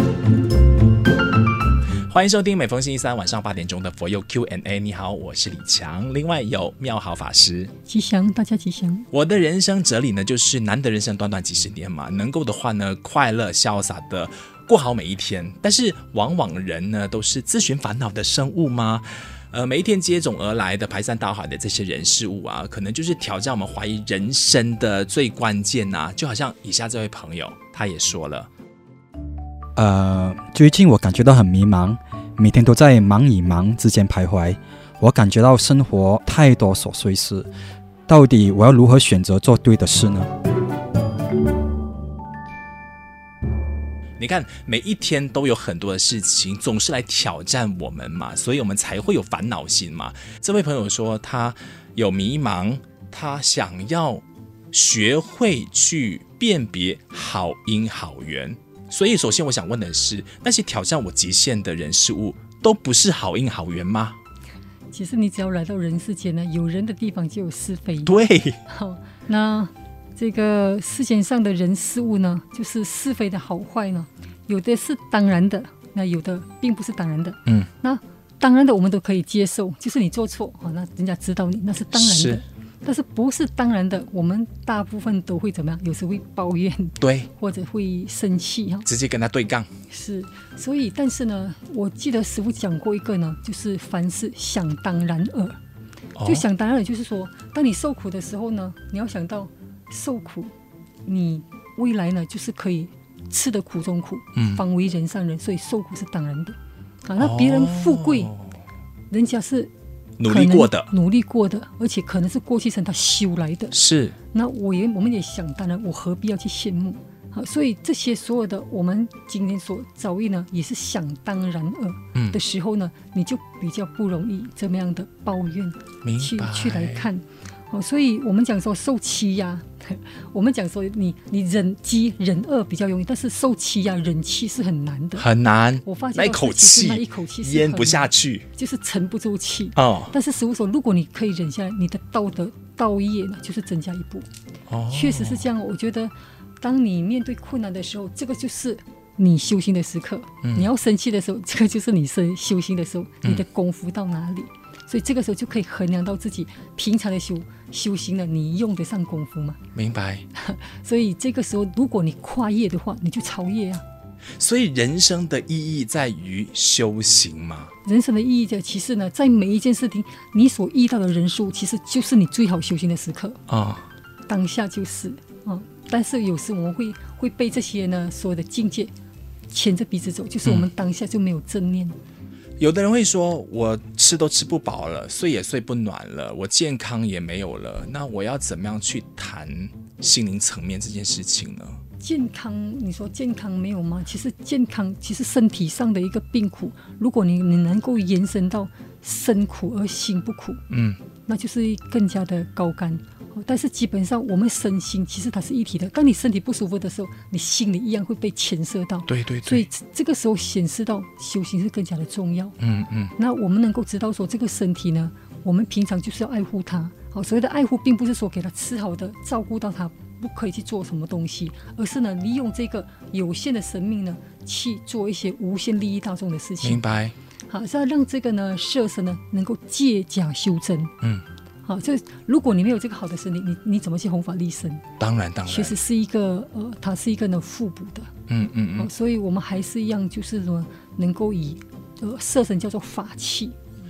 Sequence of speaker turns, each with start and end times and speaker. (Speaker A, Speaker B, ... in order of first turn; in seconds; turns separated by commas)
Speaker A: 2.1-7.7, Speaker B: 7.9-9.1, Speaker A: 9.1-28.5, Speaker C: 29.8-37.5, Speaker C: 38.1-40.3, Speaker A: 44.2-64.2, Speaker B: 64.9-88.9, Speaker A: 68.0-68.6, Speaker A: 81.9-82.4, Speaker A: 87.0-87.3, Speaker A: 88.9-89.7, Speaker B: 89.9-95.6, Speaker A: 96.2-96.4, Speaker B: 96.2-100.5, Speaker B: 101.1-108.3, Speaker A: 104.4-104.6, Speaker A: 107.2-108.4, Speaker B: 109.1-109.7, Speaker A: 110.2-110.9, Speaker B: 110.2-113.8, Speaker A: 113.7-114.2, Speaker B: 114.3-135.3, Speaker A: 126.0-127.0, Speaker A: 135.2-138.5, Speaker B: 135.8-144.3, Speaker A: 139.8-140.1, Speaker A: 144.7-145.4, Speaker B: 144.9-159.6, Speaker A: 159.8-160.2, Speaker B: 160.4-163.8, Speaker A: 164.4-167.7, Speaker B: 167.8-173.4, Speaker A: 173.5-173.9, Speaker B: 174.3-178.9, Speaker B: 179.5-181.9, Speaker A: 182.6-191.8, Speaker B: 192.0-200.6, Speaker A: 200.7-201.0, Speaker B: 201.3-212.5, Speaker A: 209.1-209.7, Speaker A: 212.6-213.1, Speaker B: 213.2-226.8, Speaker A: 226.6-227.1, Speaker B: 227.5-230.9, Speaker B: 231.7-234.8, Speaker A: 235.0-235.8, Speaker B: 235.5-238.1, Speaker A: 238.3-238.9, Speaker B: 238.8-243.6